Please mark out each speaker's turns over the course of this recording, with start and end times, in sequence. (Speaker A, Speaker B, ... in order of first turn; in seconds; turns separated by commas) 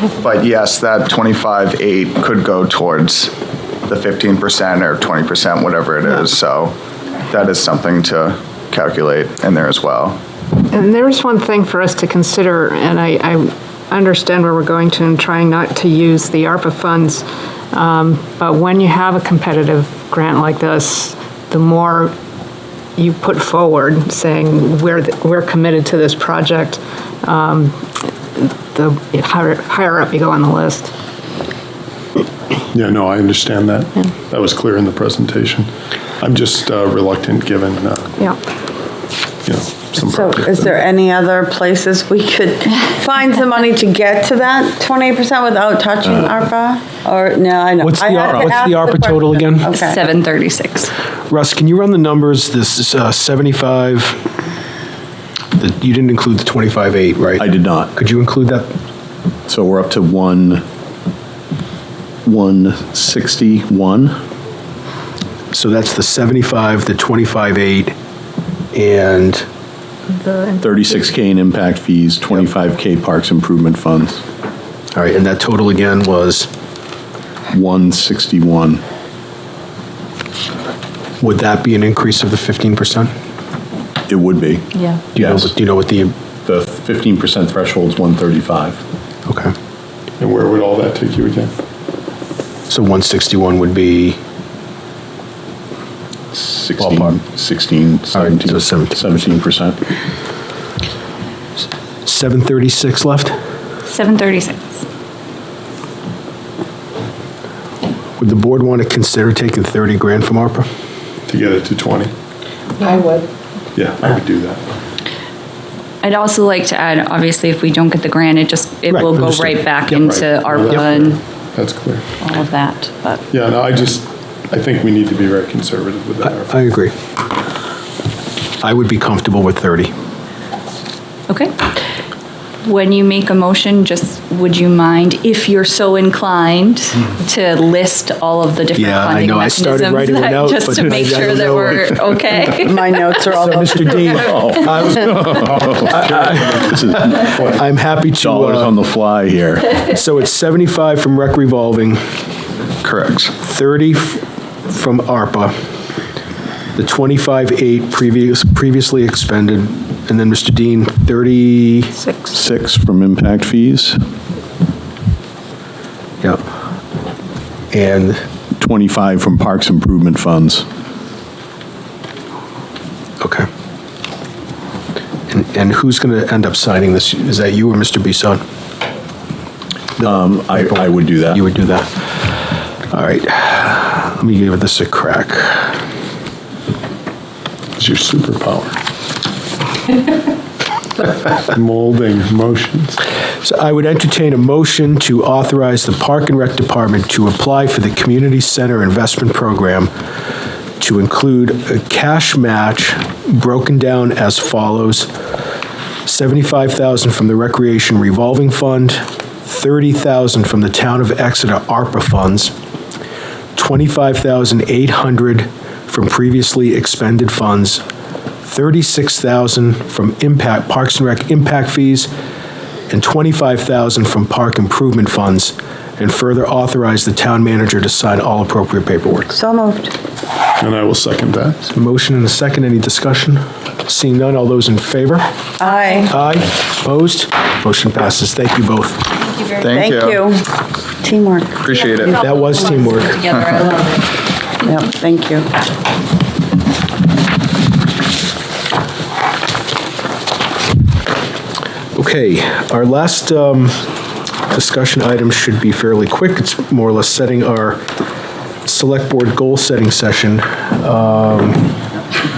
Speaker A: 0.2-3.3, Speaker A: 3.9-6.8, Speaker A: 7.3-10.2, Speaker B: 10.7-22.1, Speaker B: 23.0-27.8, Speaker B: 28.4-30.9, Speaker C: 32.7-35.7, Speaker C: 36.2-38.1, Speaker C: 39.5-40.8, Speaker D: 40.0-50.0, Speaker E: 47.8-49.7, Speaker F: 49.7-50.9, Speaker E: 51.3-54.2, Speaker E: 55.6-58.7, Speaker G: 57.4-57.9, Speaker G: 59.5-60.6, Speaker G: 62.3-64.2, Speaker E: 65.5-67.9, Speaker E: 68.7-69.5, Speaker B: 70.1-71.0, Speaker G: 70.6-74.2, Speaker E: 75.0-76.5, Speaker G: 77.5-78.8, Speaker E: 81.2-83.1, Speaker G: 84.1-84.6, Speaker F: 84.8-85.0, Speaker E: 85.2-86.2, Speaker G: 85.2-85.5, Speaker G: 86.5-88.8, Speaker E: 89.3-89.5, Speaker C: 90.2-91.5, Speaker E: 92.7-94.2, Speaker G: 96.3-99.8, Speaker E: 96.8-97.2, Speaker E: 98.1-99.0, Speaker E: 102.1-103.3, Speaker F: 103.9-104.8, Speaker E: 108.2-110.7, Speaker C: 111.3-112.1, Speaker B: 112.8-113.3, Speaker C: 113.8-114.6, Speaker F: 116.0-121.2, Speaker E: 118.9-120.0, Speaker C: 120.1-122.0, Speaker F: 122.2-123.2, Speaker C: 123.3-126.5, Speaker E: 126.3-126.9, Speaker E: 128.6-129.9, Speaker F: 131.3-131.6, Speaker F: 132.7-142.9, Speaker E: 138.8-142.2, Speaker D: 142.5-144.1, Speaker E: 143.3-148.8, Speaker G: 144.2-147.3, Speaker G: 148.2-149.7, Speaker E: 149.8-152.0, Speaker A: 152.8-153.3, Speaker E: 153.4-155.5, Speaker E: 156.8-162.0, Speaker G: 162.3-164.0, Speaker E: 167.7-168.2, Speaker G: 168.6-170.7, Speaker E: 175.3-178.4, Speaker G: 180.0-181.4, Speaker E: 180.6-181.9, Speaker E: 182.9-185.8, Speaker C: 187.8-188.8, Speaker C: 191.5-193.0, Speaker E: 193.4-199.9, Speaker E: 200.8-205.1, Speaker E: 206.1-212.5, Speaker E: 213.6-217.8, Speaker E: 218.4-222.1, Speaker E: 222.9-229.3, Speaker D: 229.3-229.9, Speaker C: 230.6-231.6, Speaker E: 231.7-235.2, Speaker D: 235.6-236.1, Speaker E: 236.1-239.1, Speaker F: 239.3-239.7, Speaker A: 239.6-240.2, Speaker D: 239.7-240.5, Speaker D: 241.0-241.6, Speaker A: 241.6-242.2, Speaker F: 241.8-244.1, Speaker E: 242.2-243.2, Speaker D: 244.6-245.5, Speaker E: 252.0-253.8, Speaker E: 254.5-257.8, Speaker E: 258.7-261.8